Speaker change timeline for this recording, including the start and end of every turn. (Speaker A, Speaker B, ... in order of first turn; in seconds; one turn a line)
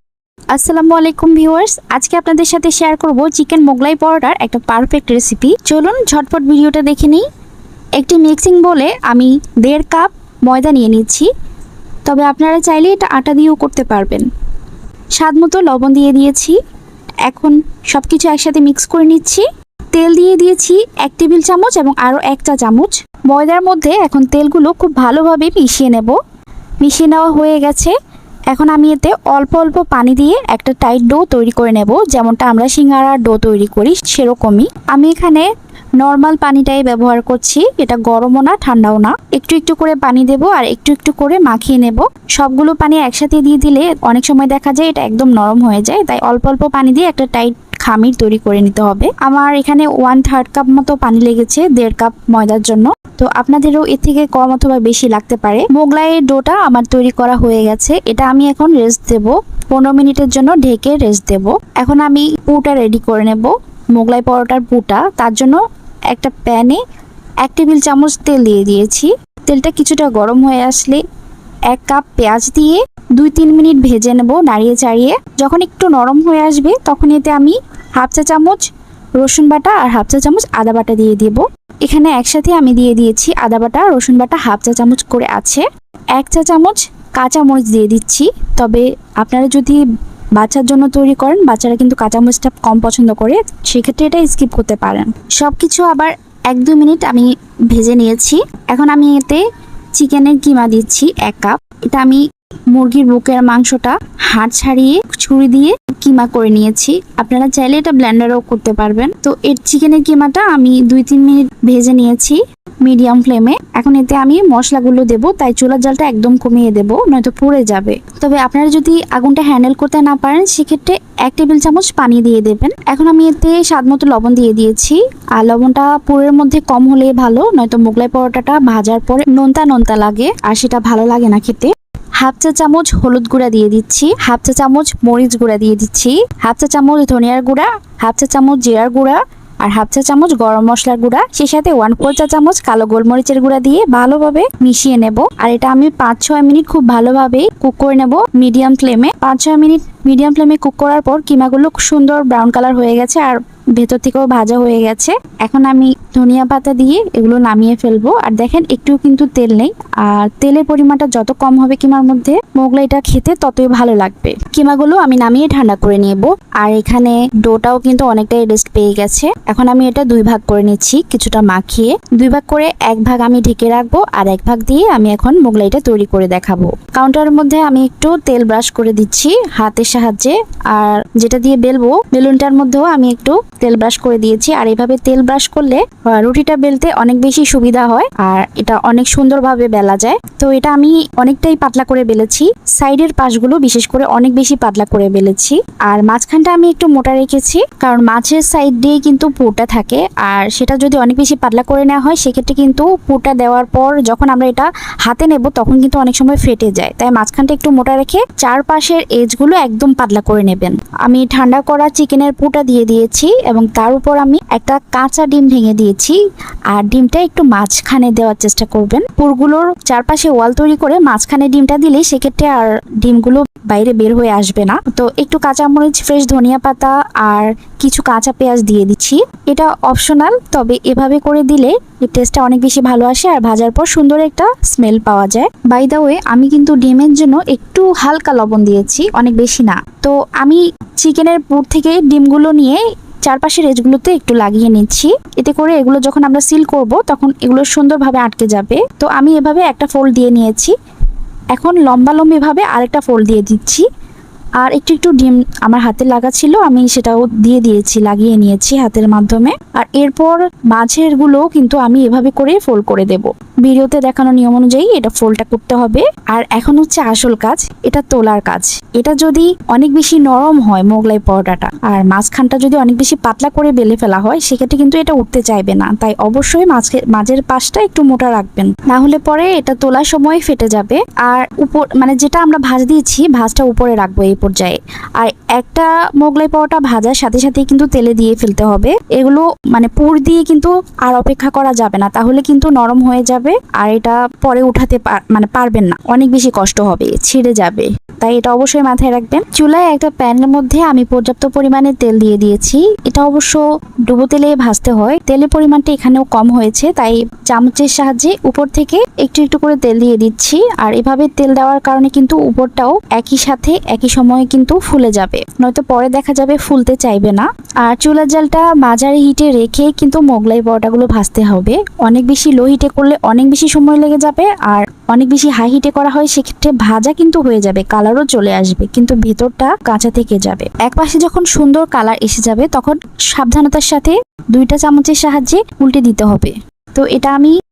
Speaker A: 0.5-7.3
Speaker A: 8.0-11.3
Speaker A: 12.1-14.3
Speaker A: 15.2-16.6
Speaker A: 17.3-26.2
Speaker A: 26.8-27.9
Speaker A: 28.5-35.5
Speaker A: 36.0-65.6
Speaker A: 66.1-66.8
Speaker A: 67.4-71.0
Speaker A: 71.7-78.6
Speaker A: 79.2-85.7
Speaker A: 86.2-89.8
Speaker A: 90.4-99.4
Speaker A: 100.0-102.2
Speaker A: 102.7-131.7
Speaker A: 132.2-216.2
Speaker A: 216.7-250.7
Speaker A: 251.5-253.8
Speaker A: 254.6-337.5